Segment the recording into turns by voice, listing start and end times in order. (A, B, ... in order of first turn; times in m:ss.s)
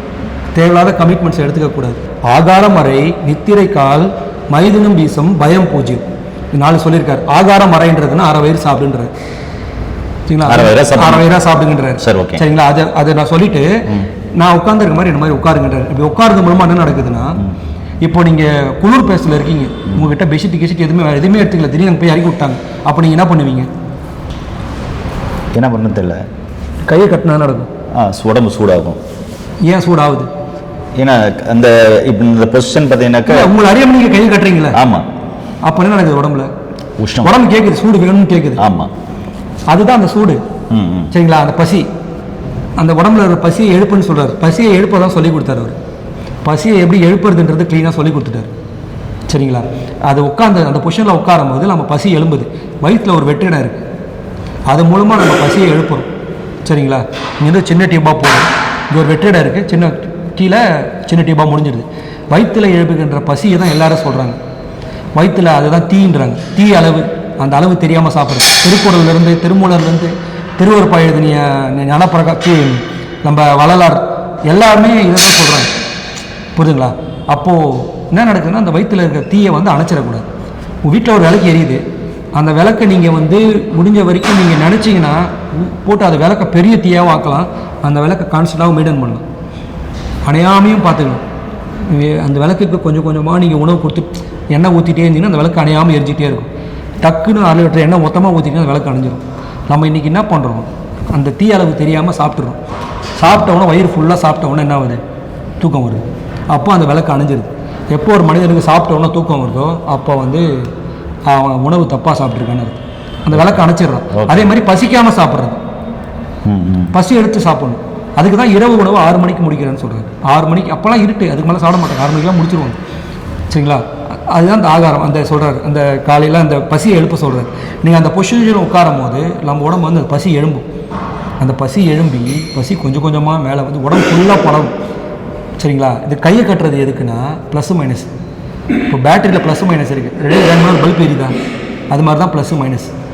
0:00.5-0:09.1 A
0:10.3-0:13.8 A
0:10.4-0:11.3 B
0:12.0-0:12.4 B
0:14.4-0:17.4 A
0:18.0-0:23.7 A
0:25.5-0:26.2 B
0:26.9-0:27.7 A
0:27.9-0:29.0 B
0:29.6-0:30.3 A
0:31.0-0:33.5 B
0:33.2-0:34.8 A
0:34.7-0:35.0 B
0:35.6-0:36.5 A
0:37.0-0:37.3 B
0:37.2-0:38.6 A
0:38.6-0:38.9 B
0:39.7-0:40.4 A
0:40.7-0:41.1 B
0:41.1-0:41.9 A
0:42.8-0:45.8 A
0:46.4-0:48.5 A
0:49.3-0:53.8 A
0:54.7-0:56.1 A
0:56.6-1:04.4 A
1:05.2-1:15.7 A
1:16.6-1:20.2 A
1:20.8-1:21.8 A
1:22.3-1:29.2 A
1:30.2-1:31.2 A
1:31.8-1:36.5 A
1:37.0-1:42.6 A
1:43.2-1:45.0 A
1:45.6-1:50.7 A
1:51.3-1:55.6 A
1:54.1-1:54.5 B
1:56.4-1:56.9 B
1:56.9-2:02.8 A
2:03.5-2:10.6 A
2:11.4-2:14.7 A
2:15.6-2:18.1 A
2:18.9-2:21.3 A
2:21.9-2:22.9 A